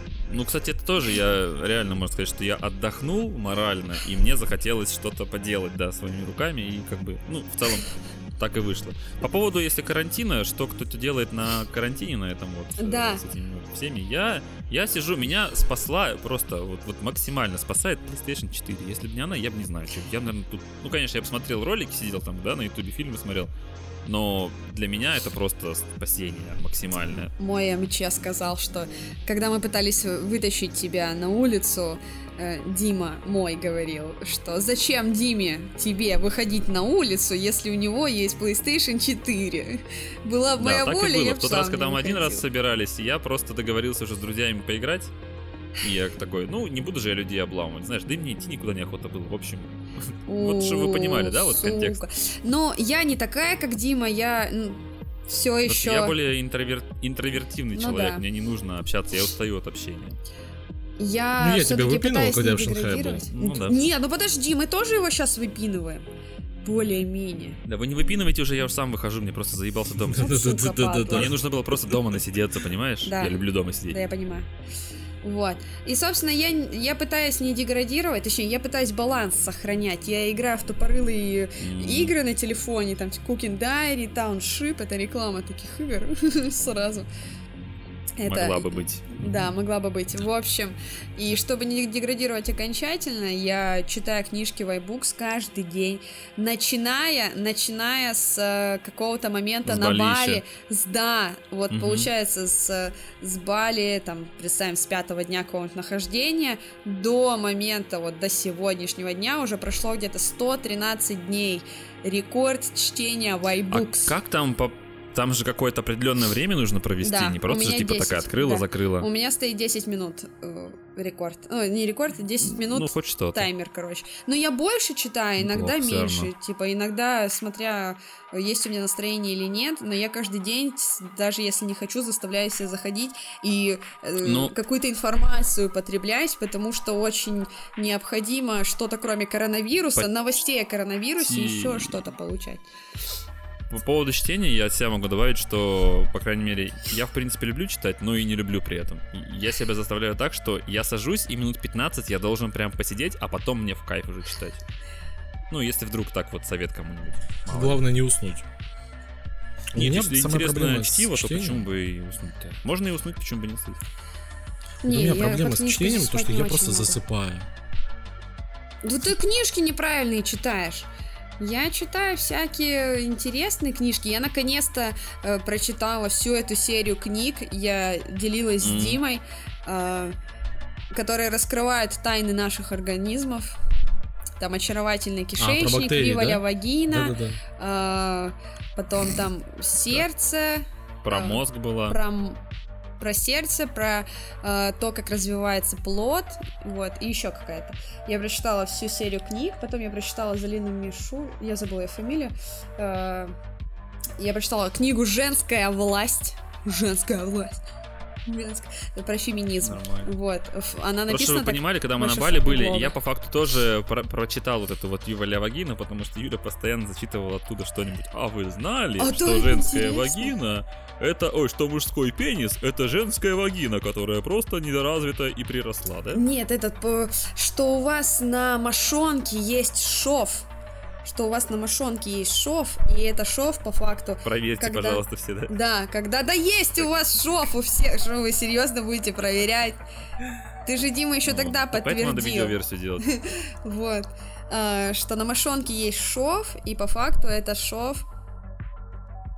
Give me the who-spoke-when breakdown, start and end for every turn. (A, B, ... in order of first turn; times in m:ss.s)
0:00.3-0:23.5 A
0:12.8-0:13.2 B
0:24.1-0:27.3 A
0:27.4-0:42.4 B
0:40.6-0:45.1 A
0:45.8-0:52.0 A
0:50.3-0:56.2 B
0:55.6-1:00.2 A
0:57.8-0:58.2 B
1:01.0-1:06.0 B
1:01.4-1:03.2 C
1:03.3-1:03.8 A
1:06.6-1:07.6 B
1:07.6-1:10.3 A
1:10.1-1:11.4 C
1:10.2-1:11.3 B
1:11.1-1:14.0 A
1:13.0-1:14.5 B
1:15.2-1:27.1 B
1:21.6-1:22.2 A
1:28.2-1:54.1 B
1:28.2-1:29.5 A
1:39.6-1:40.4 A
1:41.7-1:42.1 A
1:53.7-1:59.1 A
1:57.0-2:22.6 B
2:02.4-2:03.5 A
2:05.4-2:06.3 A
2:14.2-2:14.5 A
2:21.2-2:22.0 A
2:23.7-2:34.6 A
2:35.5-2:37.8 A
2:37.5-2:38.5 C
2:39.7-2:41.6 C
2:39.8-2:43.8 A
2:44.8-2:47.0 B
2:44.9-2:47.5 C
2:48.8-2:50.9 B
2:51.4-3:00.2 B
2:58.6-2:59.0 A
3:00.9-3:03.6 B
3:04.4-3:12.4 B
3:05.4-3:07.4 C
3:11.0-3:12.0 A
3:13.0-3:23.4 B
3:24.2-3:27.6 B
3:28.3-3:32.9 B
3:29.6-3:30.1 A
3:31.1-3:46.2 A
3:39.0-3:40.3 B
3:46.1-3:50.5 B
3:51.0-3:59.8 B
3:54.2-3:55.5 A
4:00.6-4:08.1 B
4:01.3-4:03.1 A